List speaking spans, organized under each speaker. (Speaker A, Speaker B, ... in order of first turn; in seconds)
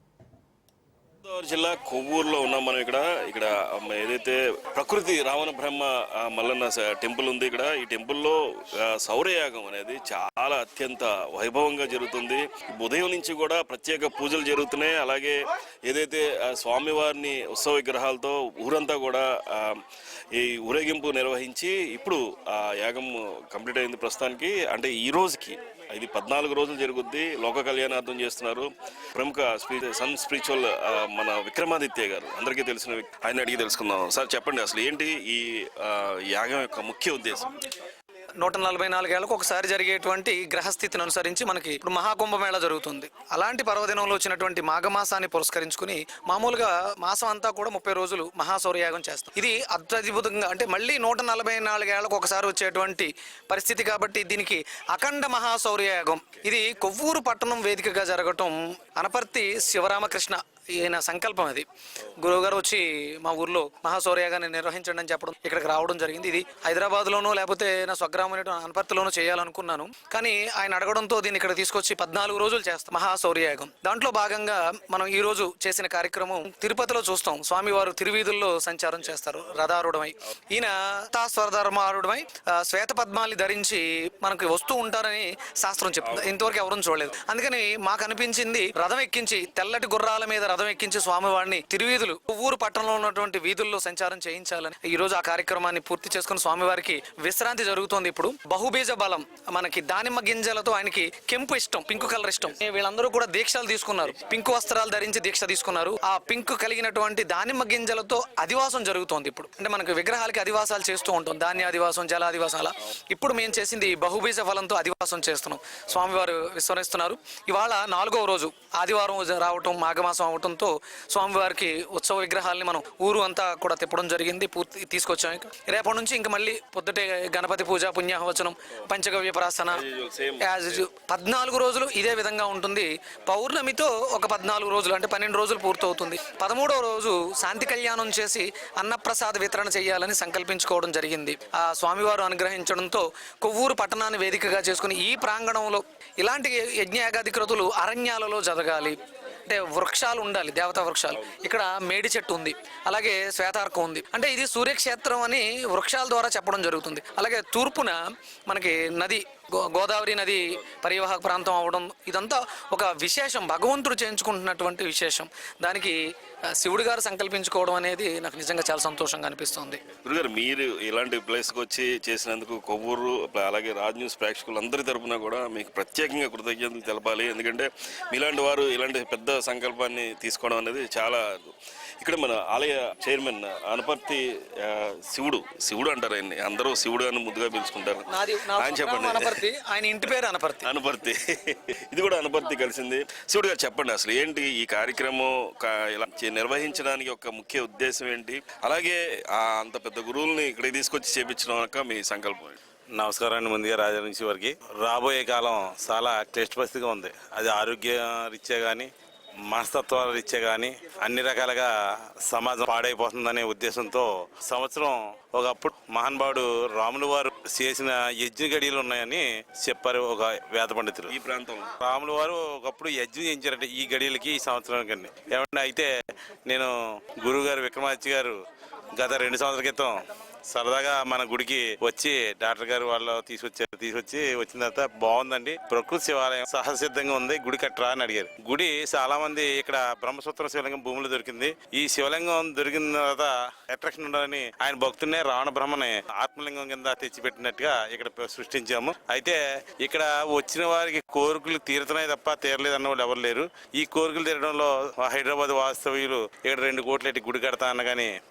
Speaker A: 1.2-37.6, 129.7-130.8, 169.9-189.4, 190.6-202.6, 221.1-221.8
Speaker B: 38.4-129.8, 130.4-166.0, 166.6-169.8, 188.1-190.7
Speaker C: 203.0-208.9, 209.5-211.7, 212.3-221.2, 221.8-225.9, 226.5-228.4, 228.9-229.9, 230.5-258.1